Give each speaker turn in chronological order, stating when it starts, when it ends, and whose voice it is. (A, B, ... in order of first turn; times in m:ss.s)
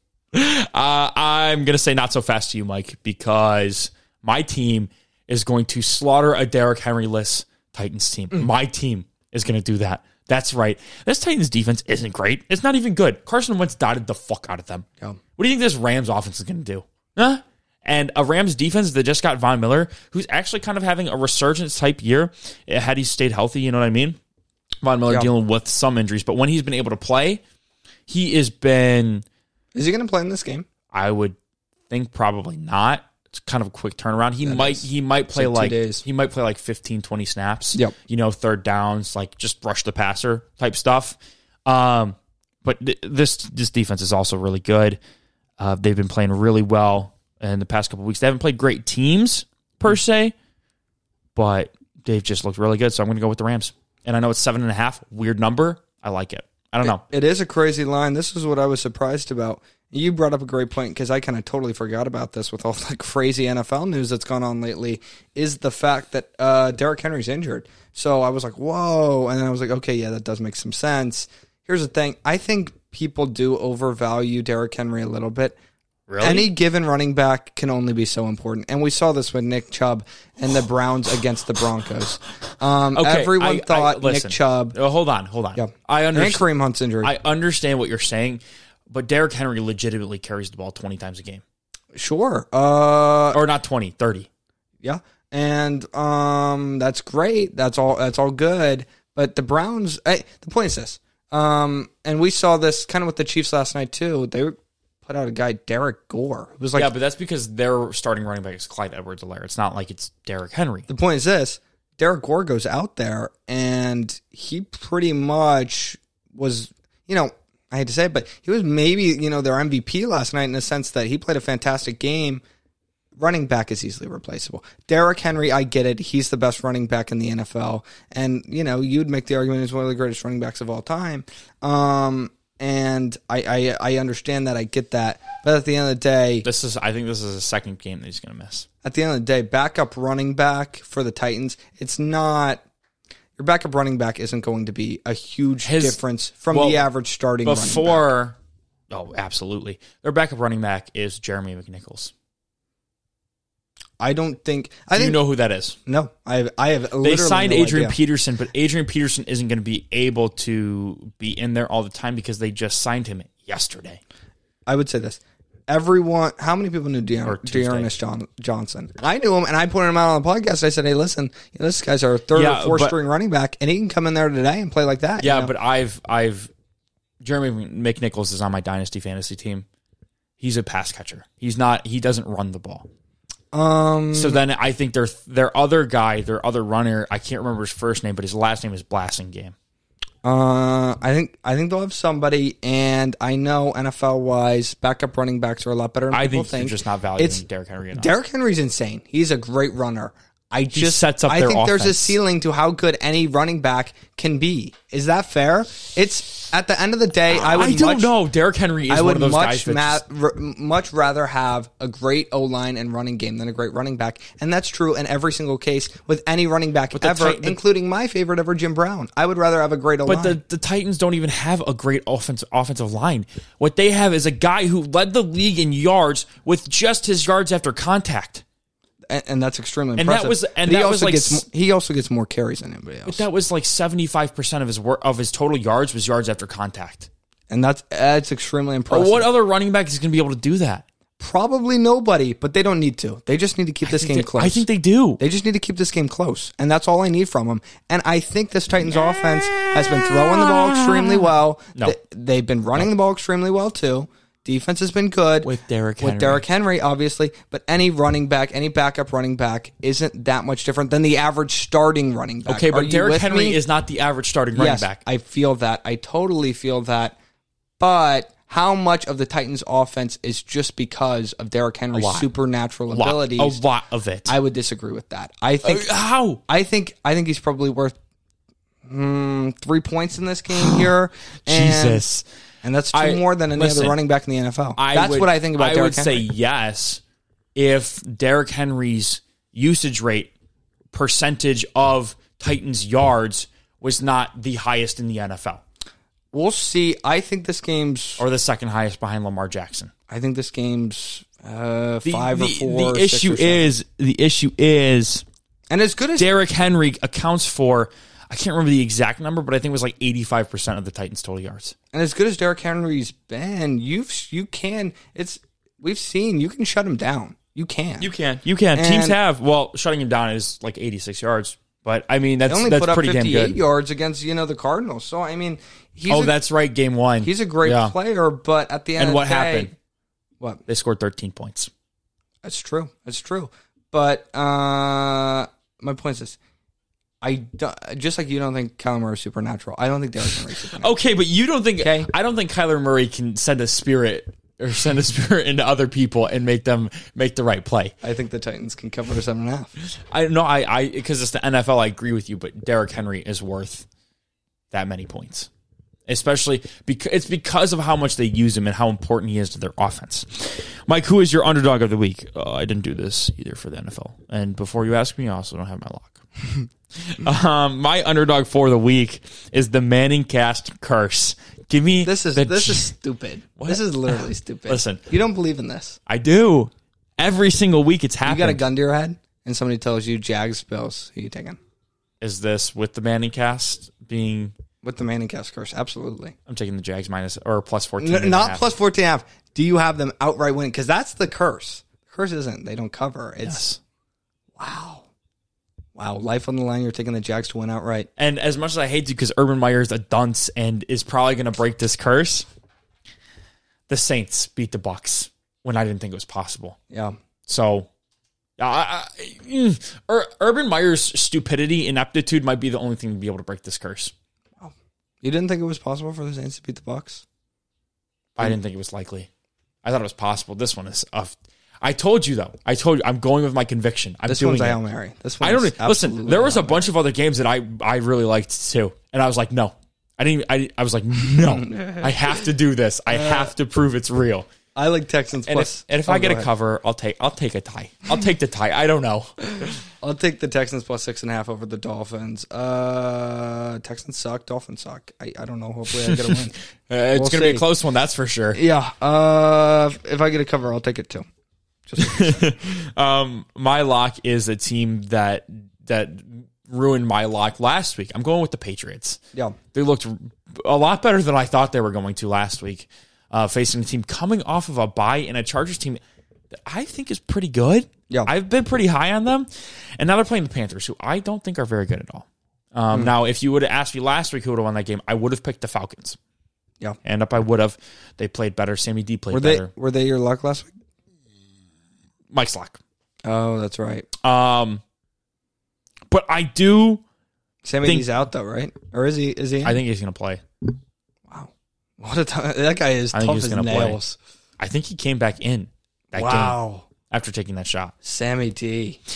0:00.3-0:14.8 A
0:15.4-0:24.2 A
0:24.8-0:27.4 A
0:28.1-0:29.2 A
0:29.7-0:30.6 B
0:30.9-0:31.4 A
0:31.9-0:45.0 A
0:34.4-0:36.0 B
0:45.6-0:50.3 A
0:51.4-0:57.0 A
0:56.8-1:15.6 B
1:16.1-1:16.5 A
1:16.2-1:24.8 B
1:22.9-1:26.4 A
1:25.6-1:27.1 B
1:27.0-1:31.4 A
1:31.9-1:33.4 B
1:33.3-1:34.3 A
1:34.8-1:46.9 B
1:46.7-1:50.9 A
1:50.9-2:02.4 B
2:03.2-2:16.5 B
2:16.4-2:18.6 A
2:18.8-2:22.6 B
2:23.4-2:28.0 B
2:25.6-2:26.0 A
2:26.5-2:26.8 A
2:27.4-2:28.4 A
2:28.9-2:32.1 A
2:34.0-2:35.2 B
2:34.9-2:35.8 A
2:35.8-2:38.0 B
2:37.0-2:44.0 A
2:44.7-2:55.5 B
2:47.2-2:47.9 A
2:52.3-2:52.9 A
2:55.2-2:56.5 A
2:57.2-2:59.6 A
3:00.4-3:02.9 A
3:03.5-3:04.4 B
3:04.1-3:09.5 A
3:10.2-3:28.1 B
3:16.1-3:18.1 A
3:20.7-3:22.2 A
3:27.3-3:30.0 A
3:28.9-3:40.4 B
3:36.9-3:37.6 A
3:40.0-3:48.4 A
3:49.1-3:53.2 B
3:50.0-3:51.4 A
3:53.0-3:57.1 A
3:57.5-3:59.3 B
3:58.9-4:00.8 A
4:01.2-4:04.6 B
4:03.8-4:05.2 A
4:05.2-4:23.6 B
4:08.9-4:12.0 A
4:15.4-4:16.4 A
4:22.5-4:25.0 A
4:24.6-4:27.2 B
4:27.8-4:33.6 B
4:31.9-4:32.3 A
4:32.9-4:34.3 A
4:34.2-4:35.9 B
4:35.6-4:36.4 A
4:36.4-4:37.9 B
4:38.8-4:42.0 B
4:40.5-4:40.9 A
4:41.5-4:42.2 A
4:42.6-4:46.3 B
4:42.9-4:44.0 A
4:44.8-4:47.0 A
4:47.5-4:50.3 A
4:50.9-4:55.6 A
4:56.3-4:58.2 B
4:58.2-4:59.9 A
5:00.1-5:03.7 B
5:02.0-5:05.2 A
5:05.7-5:06.3 B
5:06.2-5:11.7 A
5:11.9-5:18.1 B
5:18.0-5:23.6 A
5:18.7-5:19.2 B
5:22.5-5:26.4 B
5:26.1-5:27.9 A
5:27.2-5:29.7 B
5:29.0-5:29.7 A
5:30.7-5:31.7 A
5:32.4-5:36.4 B
5:37.2-5:40.9 B
5:40.7-5:47.9 A
5:41.8-5:42.1 B
5:48.0-5:49.7 B
5:49.9-5:53.9 A
5:54.7-5:55.5 A
5:56.1-6:06.2 A
6:07.0-6:12.9 A
6:12.0-6:16.0 B
6:13.6-6:15.0 A
6:16.1-6:18.6 A
6:18.2-6:21.6 B
6:22.2-6:24.5 A
6:24.8-6:26.4 B
6:26.5-6:28.6 A
6:28.0-6:33.6 B
6:33.4-6:33.8 A
6:34.6-6:35.0 B
6:36.0-6:38.1 B
6:38.2-6:42.5 A
6:43.9-6:46.8 A
6:47.5-6:47.9 A
6:48.6-6:54.1 A
6:55.2-6:57.2 B
6:58.4-6:59.3 A
6:59.8-7:04.8 A
7:04.3-7:06.8 B
7:05.4-7:14.5 A
7:11.3-7:12.3 B
7:13.1-7:13.5 B
7:14.7-7:16.5 B
7:15.4-7:19.8 A
7:20.0-7:26.6 B
7:26.0-7:28.6 A
7:27.1-7:27.6 B
7:28.5-7:31.2 B
7:31.8-7:32.5 B
7:32.0-7:39.2 A
7:39.7-7:46.0 A
7:46.5-7:56.2 A
7:57.0-7:59.7 A
7:59.3-8:00.7 B
8:02.3-8:02.8 A
8:03.2-8:04.1 B
8:04.2-8:04.8 A
8:06.1-8:07.0 A
8:07.6-8:09.8 B
8:09.6-8:10.4 A
8:11.3-8:14.2 B
8:13.1-8:14.0 A
8:14.6-8:16.6 A
8:16.1-8:16.8 B
8:17.1-8:17.9 A
8:18.0-8:19.0 B